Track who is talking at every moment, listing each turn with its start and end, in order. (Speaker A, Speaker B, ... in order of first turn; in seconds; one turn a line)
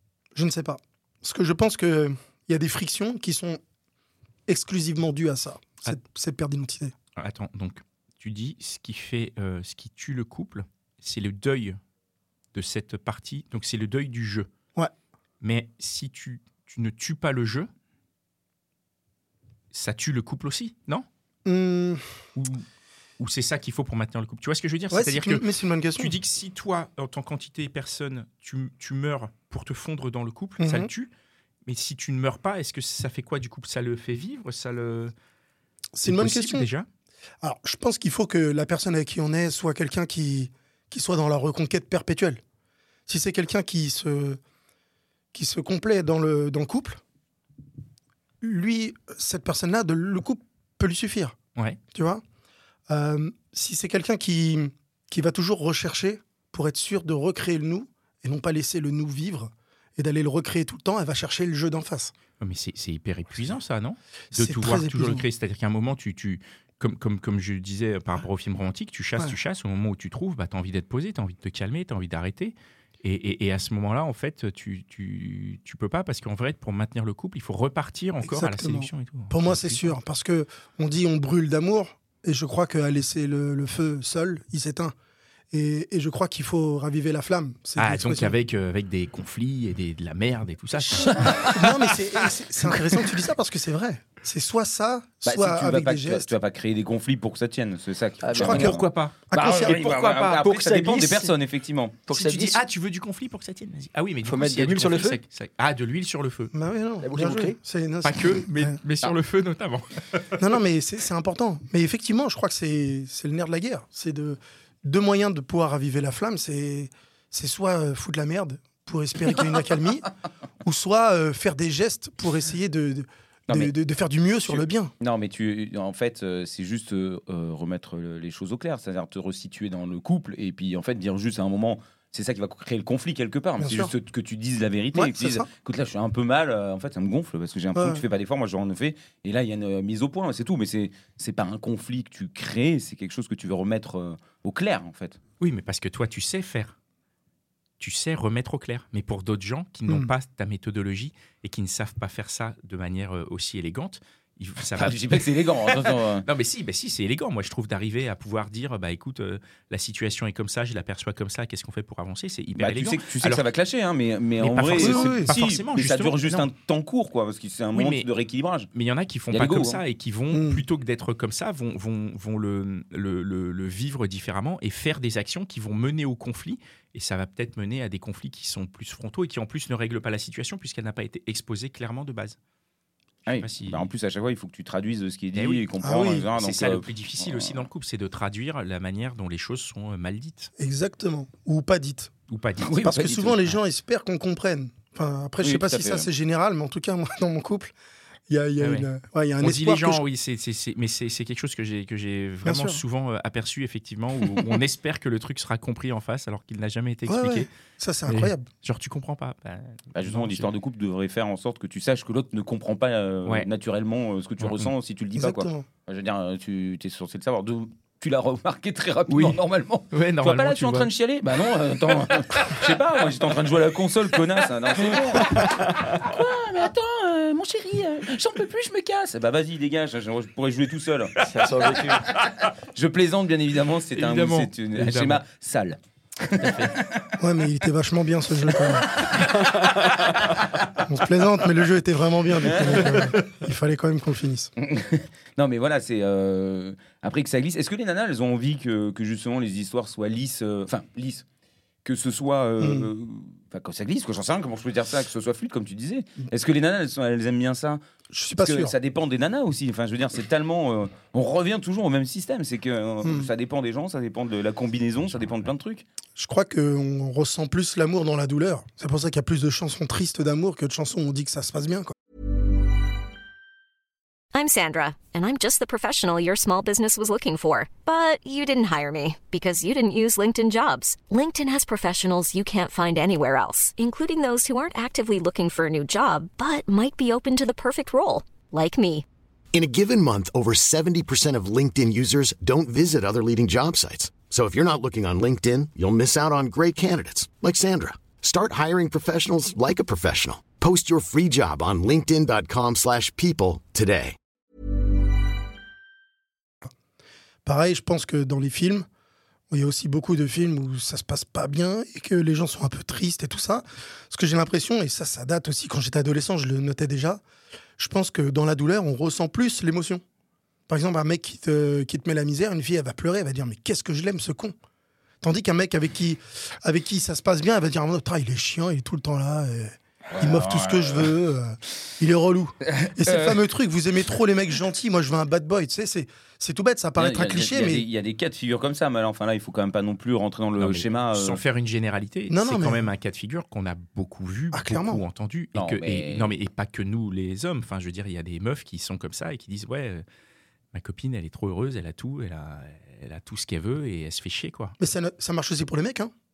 Speaker A: 0.3-3.6
Speaker A: 4.5-6.9
Speaker B: 7.2-11.8
Speaker B: 12.5-14.5
Speaker B: 15.4-17.7
Speaker B: 19.7-21.1
Speaker A: 21.4-22.2
Speaker B: 22.4-22.6
Speaker B: 23.2-25.4
Speaker A: 24.9-26.1
Speaker B: 25.9-31.1
Speaker A: 30.6-30.9
Speaker B: 31.6-35.1
Speaker A: 35.9-36.7
Speaker B: 36.0-36.9
Speaker A: 37.4-42.4
Speaker A: 43.1-44.4
Speaker A: 45.3-47.0
Speaker A: 48.4-51.4
Speaker A: 51.9-52.2
Speaker A: 52.9-62.1
Speaker B: 62.4-80.0
Speaker A: 64.3-65.2
Speaker A: 78.2-84.9
Speaker A: 85.5-88.3
Speaker B: 87.8-91.3
Speaker C: 91.1-91.9
Speaker A: 91.4-96.3
Speaker C: 95.2-98.8
Speaker D: 98.2-98.8
Speaker A: 98.3-99.8
Speaker B: 98.5-99.2
Speaker C: 99.3-102.0
Speaker D: 99.7-101.3
Speaker B: 99.8-100.2
Speaker D: 102.0-102.6
Speaker B: 102.1-106.5
Speaker D: 104.2-105.2
Speaker A: 106.5-108.8
Speaker D: 107.0-107.6
Speaker B: 108.0-110.3
Speaker A: 110.4-120.1
Speaker A: 120.6-124.9
Speaker C: 124.5-145.2
Speaker A: 133.6-133.9
Speaker A: 134.9-135.5
Speaker A: 137.7-138.0
Speaker B: 145.4-146.8
Speaker B: 147.8-163.4
Speaker C: 154.8-156.3
Speaker C: 162.6-168.7
Speaker B: 164.4-166.5
Speaker A: 164.8-165.3
Speaker B: 167.7-168.1
Speaker B: 168.7-182.4
Speaker C: 169.3-169.8
Speaker A: 170.3-170.6
Speaker C: 183.2-187.7
Speaker B: 183.4-183.8
Speaker B: 185.3-185.7
Speaker A: 185.8-186.3
Speaker B: 186.3-190.5
Speaker A: 190.6-192.1
Speaker B: 192.3-192.8
Speaker C: 192.6-193.5
Speaker A: 192.8-197.7
Speaker C: 195.4-196.1
Speaker A: 198.3-200.0
Speaker B: 198.6-198.9
Speaker B: 199.4-207.5
Speaker A: 202.4-202.8
Speaker A: 207.1-208.5
Speaker B: 208.1-210.5
Speaker C: 209.9-231.1
Speaker B: 214.4-214.7
Speaker A: 215.2-215.7
Speaker B: 219.1-219.4
Speaker B: 219.9-220.9
Speaker B: 225.2-226.0
Speaker D: 231.2-232.1
Speaker B: 232.0-232.3
Speaker C: 232.2-237.2
Speaker B: 233.9-235.2
Speaker B: 236.4-236.7
Speaker A: 237.2-239.0
Speaker C: 238.7-240.6
Speaker B: 239.3-240.5
Speaker A: 240.8-244.5
Speaker C: 242.4-243.0
Speaker C: 244.6-251.2
Speaker C: 251.8-257.8
Speaker A: 252.6-252.9
Speaker A: 258.1-258.7
Speaker C: 258.4-265.8
Speaker A: 263.0-263.3
Speaker A: 266.1-271.9
Speaker E: 274.3-289.0
Speaker F: 289.5-304.1
Speaker A: 307.4-308.9
Speaker A: 309.5-317.2
Speaker A: 317.8-320.0
Speaker A: 320.7-324.5
Speaker A: 325.2-337.9
Speaker C: 330.1-331.1
Speaker C: 332.6-333.4
Speaker C: 337.0-341.4
Speaker B: 340.6-350.0
Speaker A: 342.3-342.9
Speaker A: 344.5-345.0
Speaker C: 345.5-346.3
Speaker B: 350.7-354.8
Speaker A: 354.8-356.1